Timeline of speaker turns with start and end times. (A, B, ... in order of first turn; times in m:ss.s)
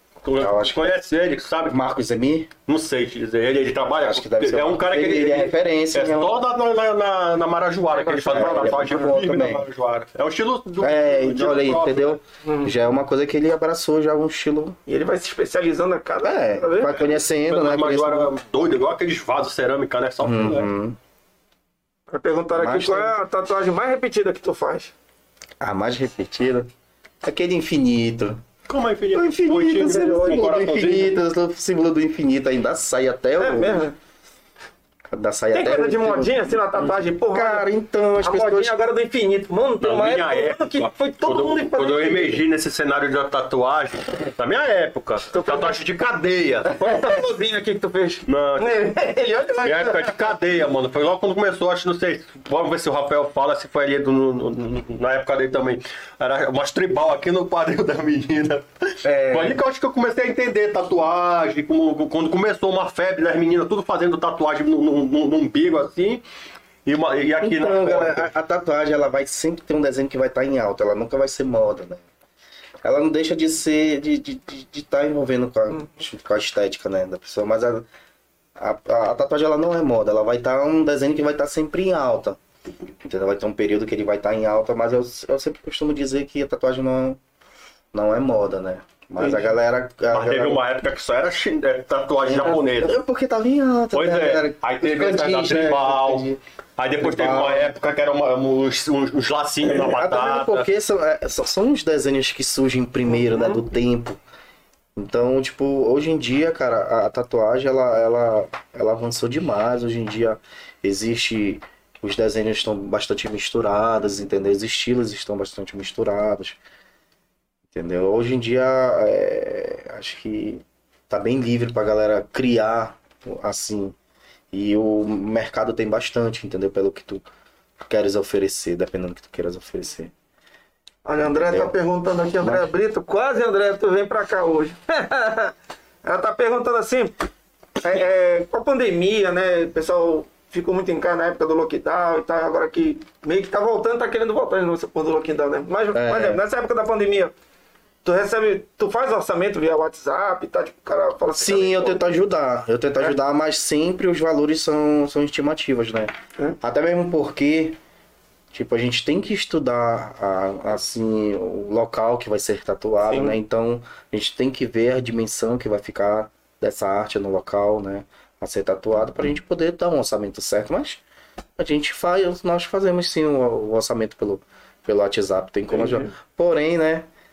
0:00.2-0:01.8 A
0:00.4-0:01.0 B
0:01.6-0:02.5 B
0:02.7-0:12.2 A
0:04.0-0:06.4 B
0:08.0-0:09.1 C
0:08.3-0:09.6 B
0:10.8-0:14.8 B
0:12.4-0:12.7 C
0:14.9-0:17.0 C
0:16.2-0:18.3 B
0:17.5-0:20.7 A
0:20.2-0:21.0 B
0:22.1-0:24.9 C
0:22.5-0:23.2 B
0:25.6-0:26.7 B
0:27.2-0:28.4 B
0:28.7-0:31.2 A
0:29.1-0:33.8 B
0:29.8-0:30.5 C
0:33.4-0:34.0 C
0:35.1-0:36.6 B
0:35.5-0:37.7 C
0:37.3-0:38.8 B
0:38.2-0:42.4 C
0:39.8-0:46.8 A
0:45.3-0:45.8 C
0:46.8-0:50.3 C
0:48.2-0:48.7 A
0:49.6-1:06.2 A
0:59.0-0:59.6 B
1:06.8-1:08.3 A
1:07.4-1:12.0 B
1:12.8-1:17.8 B
1:18.6-1:22.4 B
1:23.0-1:27.2 B
1:27.9-1:30.6 B
1:29.2-1:29.5 C
1:30.1-1:33.0 A
1:32.2-1:36.4 B
1:33.9-1:36.2 A
1:36.8-1:40.7 A
1:37.0-1:37.7 B
1:39.6-1:44.2 B
1:43.1-1:43.6 C
1:45.0-1:56.6 B
1:57.7-2:03.9 B
2:04.5-2:07.2 B
2:07.8-2:10.1 B
2:11.0-2:17.2 C
2:11.4-2:11.7 B
2:12.4-2:12.7 B
2:17.8-2:27.3 C
2:25.9-2:26.4 B
2:28.0-2:32.1 C
2:31.4-2:37.8 B
2:38.5-2:51.0 B
2:43.1-2:43.4 C
2:51.6-2:57.1 B
2:55.7-2:56.1 C